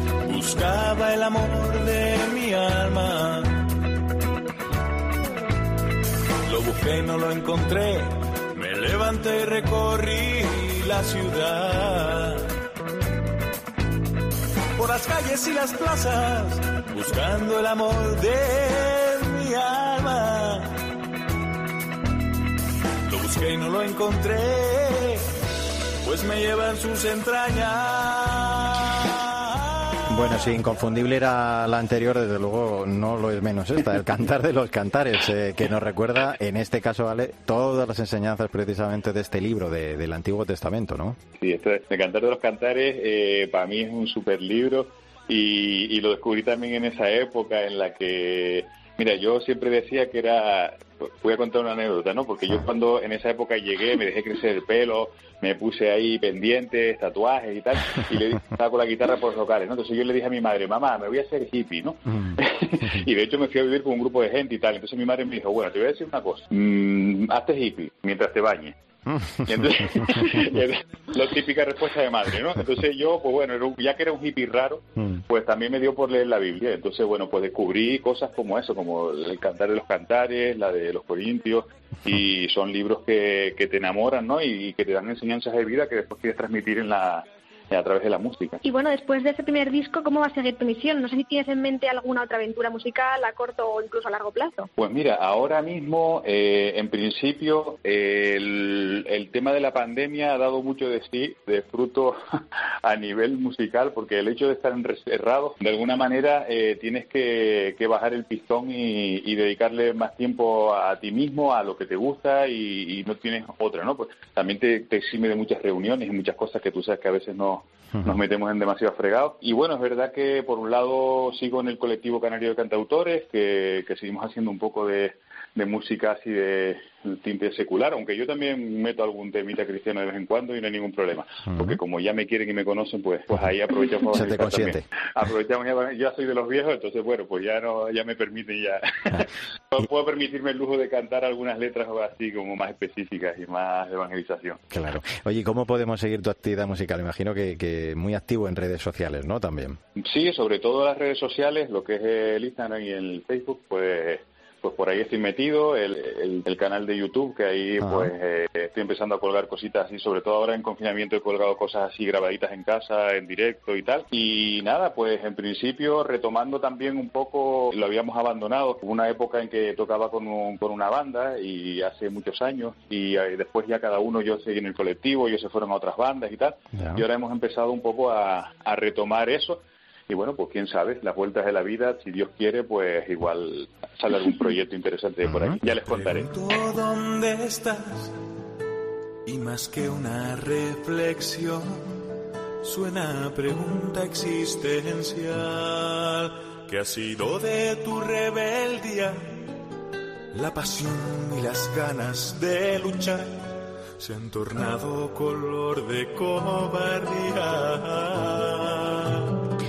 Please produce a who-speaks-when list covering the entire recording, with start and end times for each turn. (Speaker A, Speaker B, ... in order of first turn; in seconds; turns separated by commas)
Speaker A: 0.2-3.6, Speaker A: 6.4-12.5, Speaker A: 14.8-20.8, Speaker A: 23.0-25.3, Speaker A: 26.0-29.9, Speaker B: 30.1-41.2, Speaker C: 41.4-68.7, Speaker C: 69.3-88.6, Speaker D: 88.6-94.7, Speaker C: 94.8-102.2, Speaker C: 102.8-144.6, Speaker B: 134.1-134.8, Speaker B: 144.7-149.8, Speaker C: 150.0-186.3, Speaker B: 157.8-158.1, Speaker B: 176.7-177.0, Speaker B: 185.3-185.5, Speaker A: 185.6-188.2, Speaker A: 189.2-192.0, Speaker A: 192.6-199.2, Speaker A: 200.3-203.4, Speaker A: 204.0-209.3